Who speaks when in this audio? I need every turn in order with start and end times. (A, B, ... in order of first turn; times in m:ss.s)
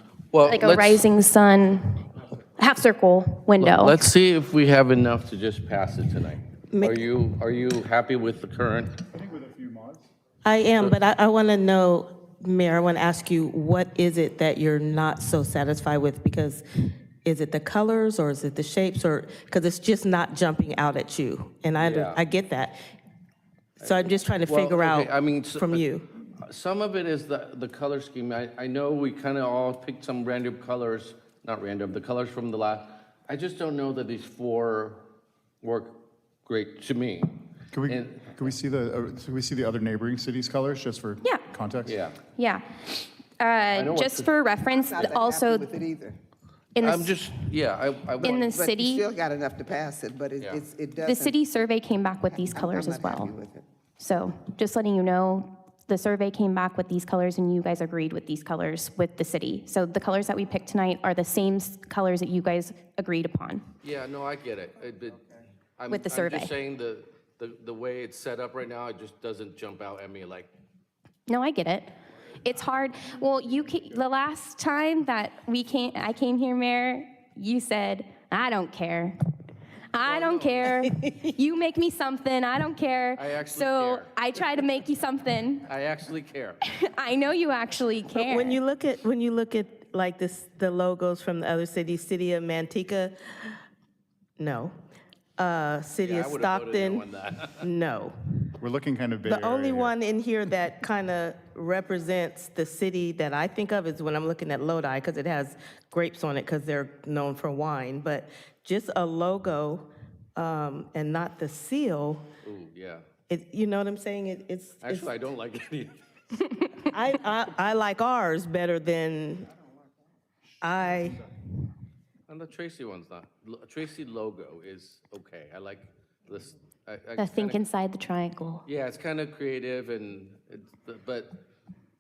0:00.3-0:01.1 A
0:00.4-0:02.1 B
0:02.6-0:04.0 B
0:03.6-0:09.0 A
0:06.7-0:07.0 C
0:09.1-0:10.1 D
0:10.4-0:16.6 C
0:17.2-0:22.8 C
0:21.8-0:22.2 A
0:23.8-0:35.0 A
0:23.8-0:26.0 C
0:35.6-0:38.4 A
0:37.7-0:42.0 D
0:41.8-0:42.2 A
0:42.4-0:45.8 B
0:43.8-0:44.3 A
0:44.7-0:46.2 E
0:46.8-0:47.3 B
0:46.8-0:48.5 A
0:48.2-0:49.1 B
0:48.2-0:51.4 E
0:51.0-0:53.3 B
0:52.3-0:53.7 E
0:54.0-1:03.7 B
1:03.8-1:10.5 A
1:05.9-1:06.5 B
1:11.3-1:19.2 B
1:19.9-1:25.6 B
1:20.0-1:20.7 A
1:20.7-1:21.2 C
1:23.2-1:24.1 A
1:25.7-1:26.6 A
1:26.6-1:28.6 B
1:28.1-1:33.6 C
1:34.4-1:34.7 C
1:35.4-1:37.0 C
1:36.0-1:37.7 A
1:37.6-1:38.5 C
1:38.6-1:39.9 D
1:39.2-1:52.3 C
1:52.4-1:53.0 A
1:53.3-1:55.1 C
1:54.8-1:56.0 A
1:56.9-1:59.5 C
2:00.6-2:01.2 C
2:02.3-2:07.6 A
2:07.2-2:08.7 B
2:08.7-2:11.4 A